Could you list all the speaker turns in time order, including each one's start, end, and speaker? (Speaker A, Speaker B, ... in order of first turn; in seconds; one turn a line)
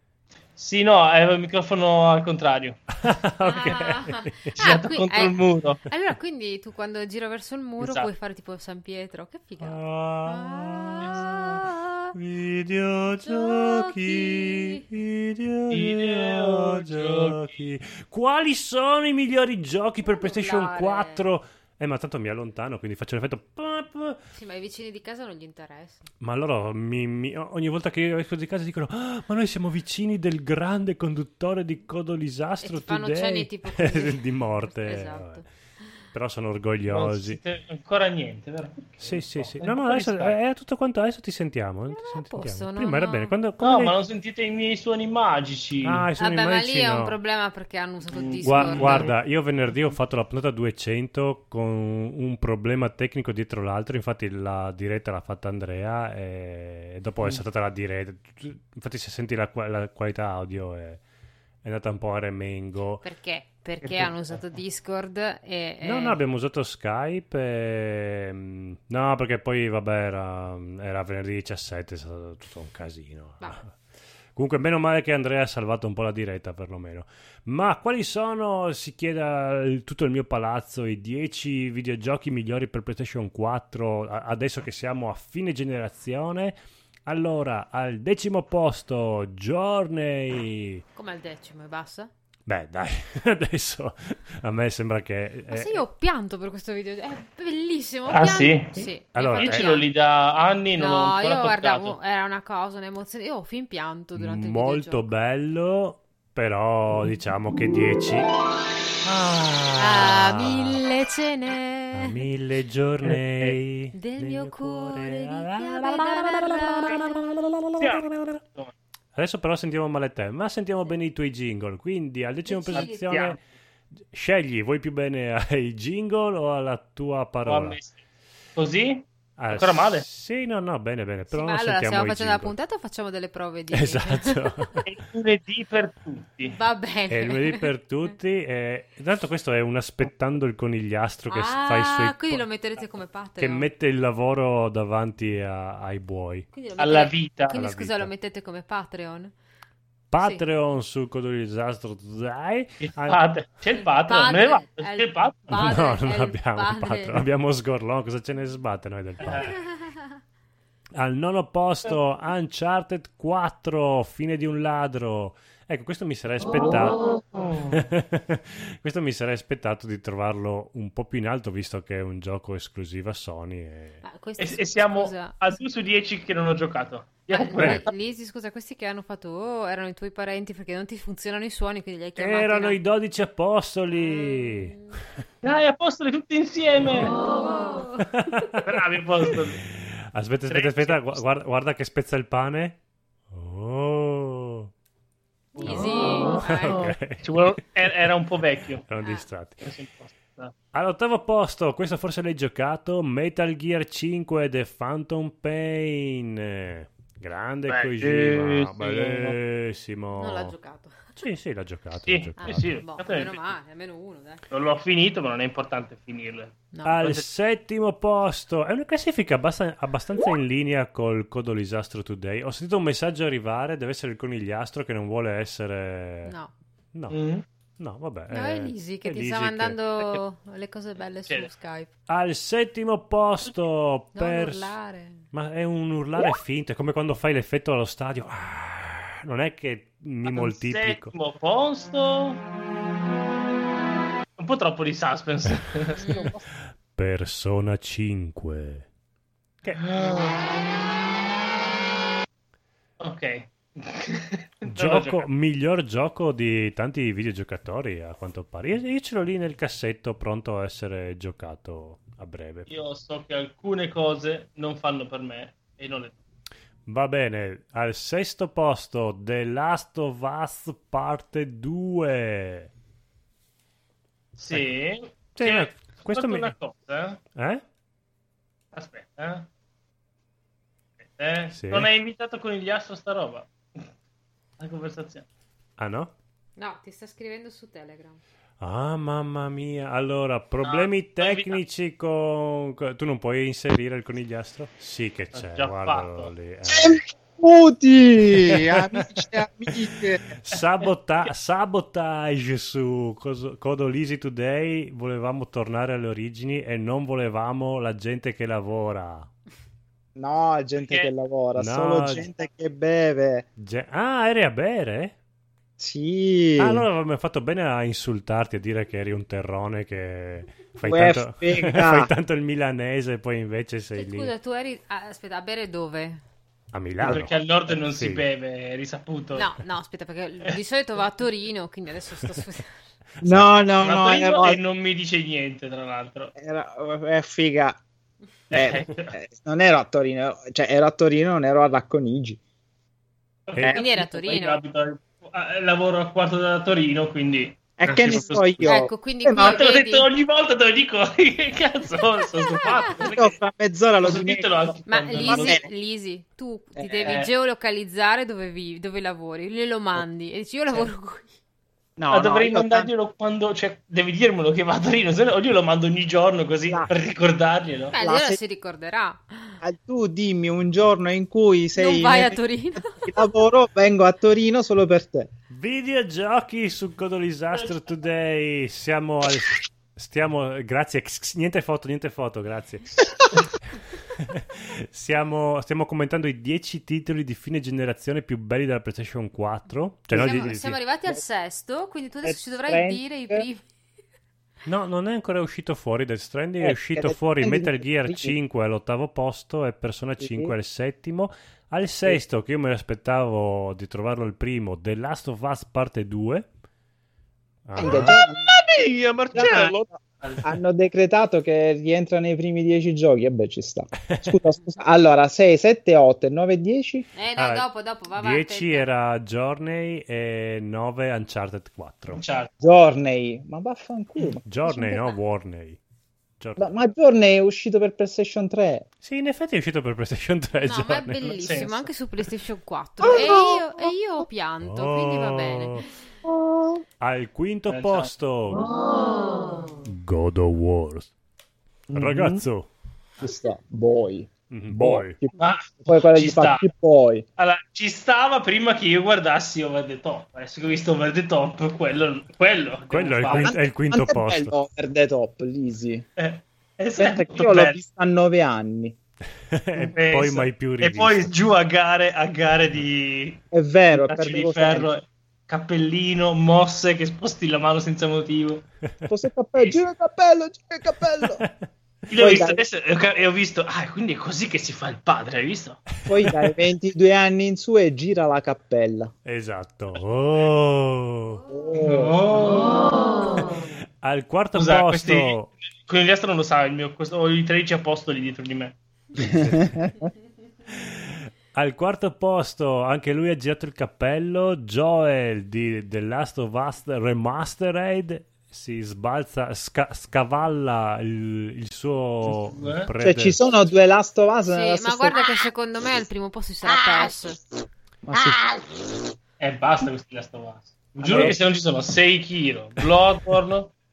Speaker A: 0.6-2.8
Speaker B: 3.0-4.5
Speaker C: 3.4-12.1
Speaker A: 4.5-5.8
Speaker A: 7.8-8.1
Speaker B: 9.6-11.6
Speaker B: 12.1-24.2
Speaker C: 13.2-14.8
Speaker A: 15.7-17.6
Speaker C: 20.0-21.3
Speaker C: 24.4-26.1
Speaker B: 26.2-35.4
Speaker C: 32.6-35.5
Speaker B: 36.1-37.4
Speaker A: 36.9-40.4
Speaker B: 39.0-44.0
Speaker C: 41.9-43.4
Speaker A: 43.6-46.1
Speaker B: 45.8-47.2
Speaker C: 46.2-49.1
Speaker A: 48.1-49.1
Speaker B: 48.4-61.0
Speaker B: 61.6-63.0
Speaker C: 63.0-66.2
Speaker A: 63.8-64.4
Speaker B: 65.8-73.7
Speaker B: 74.3-90.8
Speaker C: 91.0-92.1
Speaker B: 92.5-95.8
Speaker C: 95.5-99.9
Speaker A: 98.1-102.0
Speaker B: 99.1-99.7
Speaker C: 100.8-105.1
Speaker B: 104.2-108.3
Speaker B: 109.0-110.8
Speaker C: 109.8-112.1
Speaker B: 111.9-118.4
Speaker A: 113.0-113.6
Speaker C: 113.9-117.2
Speaker A: 117.8-118.8
Speaker B: 119.2-123.4
Speaker C: 122.5-123.2
Speaker A: 122.7-123.4
Speaker B: 124.1-127.8
Speaker A: 127.5-128.0
Speaker A: 128.6-130.1
Speaker B: 129.4-132.6
Speaker C: 131.3-134.8
Speaker B: 133.7-134.7
Speaker A: 134.8-136.6
Speaker C: 136.6-137.6
Speaker B: 137.1-142.4
Speaker C: 141.3-143.7
Speaker B: 143.4-146.5
Speaker C: 146.5-149.3
Speaker A: 146.8-147.5
Speaker B: 147.5-148.1
Speaker B: 150.1-153.2
Speaker C: 150.2-150.4
Speaker A: 152.8-155.6
Speaker C: 153.7-157.2
Speaker B: 155.6-159.6
Speaker A: 159.2-159.6
Speaker C: 159.3-160.1
Speaker B: 161.0-167.1
Speaker A: 167.3-167.7
Speaker B: 167.7-174.0
Speaker C: 174.0-175.5
Speaker A: 174.4-177.9
Speaker C: 177.3-182.8
Speaker B: 177.6-177.8
Speaker B: 182.2-184.7
Speaker C: 184.0-185.0
Speaker A: 185.4-187.2
Speaker C: 187.2-188.5
Speaker B: 188.2-188.6
Speaker A: 188.6-189.7
Speaker B: 189.7-192.8
Speaker A: 190.5-191.2
Speaker B: 193.3-194.7
Speaker C: 195.6-196.9
Speaker A: 195.6-196.2
Speaker B: 195.6-197.4
Speaker A: 197.2-198.8
Speaker B: 198.9-199.6
Speaker C: 199.0-199.3
Speaker A: 199.6-200.5
Speaker B: 200.7-210.5
Speaker A: 207.7-209.4
Speaker C: 210.1-211.2
Speaker B: 211.2-212.8
Speaker A: 212.1-213.4
Speaker C: 212.4-214.4
Speaker A: 214.5-217.2
Speaker C: 216.7-217.0
Speaker B: 216.8-226.3
Speaker C: 226.2-226.5
Speaker A: 227.1-227.4
Speaker B: 227.8-229.8
Speaker C: 228.3-231.9
Speaker B: 232.1-234.7
Speaker C: 234.2-235.2
Speaker B: 235.3-241.1
Speaker A: 240.2-242.4
Speaker A: 244.4-246.4
Speaker C: 246.0-246.4
Speaker B: 246.9-248.9
Speaker B: 249.6-249.9
Speaker A: 249.8-250.4
Speaker A: 253.0-255.3
Speaker B: 254.7-262.7
Speaker A: 262.7-266.2
Speaker B: 266.9-272.7
Speaker A: 274.4-277.2
Speaker B: 275.4-276.5
Speaker B: 277.4-277.6
Speaker A: 278.7-279.5
Speaker A: 281.0-283.8
Speaker B: 281.5-281.9
Speaker A: 284.6-285.3
Speaker B: 285.8-286.1
Speaker C: 286.6-288.2
Speaker B: 288.6-297.0
Speaker A: 290.6-291.6
Speaker A: 295.4-296.3
Speaker D: 296.7-300.2
Speaker B: 298.5-298.8
Speaker B: 300.4-309.3
Speaker D: 310.2-313.4
Speaker A: 310.8-311.1
Speaker B: 311.6-312.3
Speaker B: 313.6-315.1
Speaker D: 315.8-316.9
Speaker B: 316.6-324.3
Speaker D: 320.8-322.1
Speaker C: 324.0-326.2
Speaker B: 326.7-328.3
Speaker A: 327.0-329.5
Speaker C: 329.4-332.8
Speaker B: 333.2-333.6
Speaker D: 333.2-334.6
Speaker A: 333.8-336.3
Speaker D: 336.4-337.8
Speaker D: 338.5-342.4
Speaker A: 338.5-339.1
Speaker A: 343.5-348.7
Speaker C: 343.6-344.6
Speaker D: 347.8-349.6
Speaker C: 348.6-350.1
Speaker A: 349.4-353.4
Speaker C: 352.6-353.1
Speaker D: 353.0-355.7
Speaker A: 354.0-355.6
Speaker C: 354.9-361.3
Speaker D: 356.8-357.2
Speaker A: 357.0-357.3
Speaker D: 362.0-362.9
Speaker A: 362.1-368.0
Speaker C: 367.9-369.6
Speaker D: 368.0-368.4
Speaker D: 369.6-375.3
Speaker C: 371.8-373.0
Speaker B: 375.5-383.0
Speaker B: 384.2-390.8
Speaker D: 390.1-390.6
Speaker C: 390.1-393.6
Speaker D: 392.2-393.5
Speaker B: 394.7-406.5
Speaker D: 396.6-398.4
Speaker D: 400.2-400.5
Speaker B: 407.7-408.2
Speaker D: 407.8-408.5
Speaker A: 407.8-410.5
Speaker D: 409.3-417.1
Speaker C: 417.1-418.9
Speaker B: 417.4-422.2
Speaker A: 422.1-422.5
Speaker D: 422.6-424.9
Speaker B: 424.4-425.8
Speaker B: 426.4-426.7
Speaker D: 426.6-428.9
Speaker B: 429.0-431.3
Speaker C: 430.6-435.9
Speaker A: 431.2-431.9
Speaker D: 433.0-433.6
Speaker B: 434.6-435.9
Speaker D: 436.3-436.8
Speaker B: 437.0-438.7
Speaker A: 437.7-438.1
Speaker B: 439.9-441.1
Speaker D: 441.9-442.4
Speaker B: 441.9-442.7
Speaker D: 443.2-447.2
Speaker B: 444.5-445.2
Speaker A: 445.4-446.7
Speaker A: 447.4-453.5
Speaker B: 452.9-454.5
Speaker D: 453.3-456.1
Speaker A: 456.2-457.8
Speaker D: 457.0-459.0
Speaker B: 459.5-461.3
Speaker A: 459.9-463.4
Speaker D: 463.5-464.9
Speaker A: 463.9-468.6
Speaker D: 469.1-471.4
Speaker A: 469.6-469.8
Speaker B: 471.1-471.7
Speaker A: 472.1-475.9
Speaker D: 472.2-472.6
Speaker D: 476.1-479.1
Speaker B: 476.2-476.6
Speaker B: 479.2-481.4
Speaker C: 481.3-481.7
Speaker D: 481.5-482.2
Speaker A: 481.8-483.1
Speaker B: 484.0-485.5
Speaker A: 484.6-488.8
Speaker B: 489.2-489.9
Speaker D: 489.2-489.9
Speaker B: 490.7-503.4
Speaker A: 502.2-502.9
Speaker D: 503.0-505.2
Speaker C: 504.5-507.4
Speaker D: 508.1-508.5
Speaker A: 509.4-513.8
Speaker D: 511.0-511.4